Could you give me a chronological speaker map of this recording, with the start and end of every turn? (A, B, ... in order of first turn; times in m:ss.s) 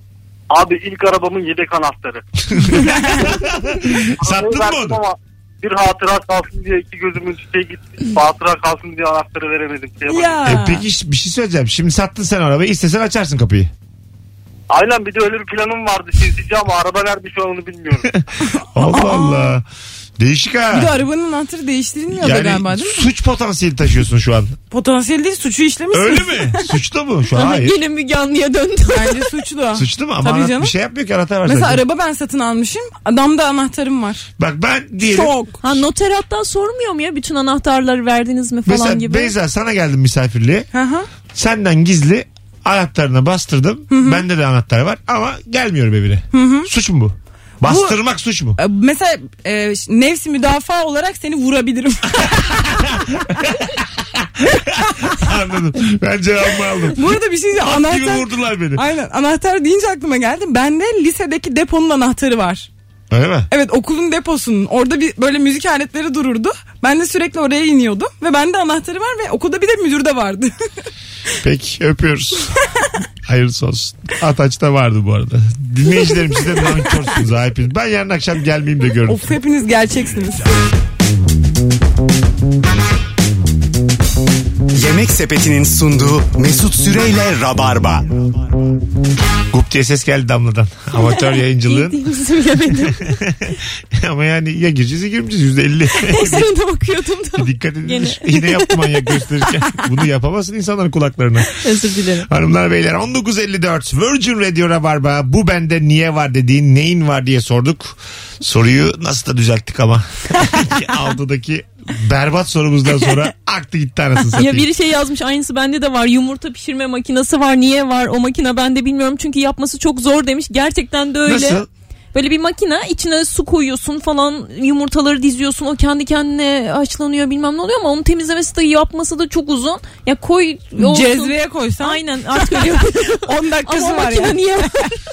0:00.5-0:02.2 A
0:02.5-0:05.0 B
0:02.7-0:03.3 C
0:04.2-0:10.4 A
0:10.1-0:10.8 C
0:10.4-0:13.7 B
0:14.7-0:18.1 A
0:18.1-0:19.6 B
0:18.8-0:19.6 C
0:20.2-0:21.0 B
0:20.7-0:23.0 C
0:22.1-0:24.6 B
0:24.7-0:26.6 C
0:25.9-0:27.8 B
0:27.3-0:29.3 D
0:28.9-0:30.7 C
0:29.7-0:31.8 B
0:31.4-0:34.2 C
0:34.4-0:35.8 B
0:35.0-0:35.6 C
0:35.6-0:39.3 D
0:38.6-0:40.7 B
0:40.7-0:41.1 C
0:41.3-0:48.6 B
0:43.9-0:44.2 C
0:46.3-0:46.7 C
0:47.6-0:48.0 C
0:48.6-0:52.6 C
0:52.4-0:58.8 B
0:56.9-1:02.7 C
1:03.1-1:03.5 B
1:03.5-1:10.5 C
1:11.4-1:12.6 B
1:13.2-1:19.3 B
1:19.0-1:20.5 C
1:24.7-1:28.3 E
1:29.5-1:32.0 B
1:31.0-1:33.2 D
1:32.8-1:36.5 B
1:36.0-1:39.2 D
1:37.4-1:41.6 B
1:41.6-1:42.3 D
1:42.2-1:54.7 B
1:54.4-2:01.6 D
2:01.2-2:01.7 B
2:02.1-2:15.0 D
2:10.8-2:14.7 C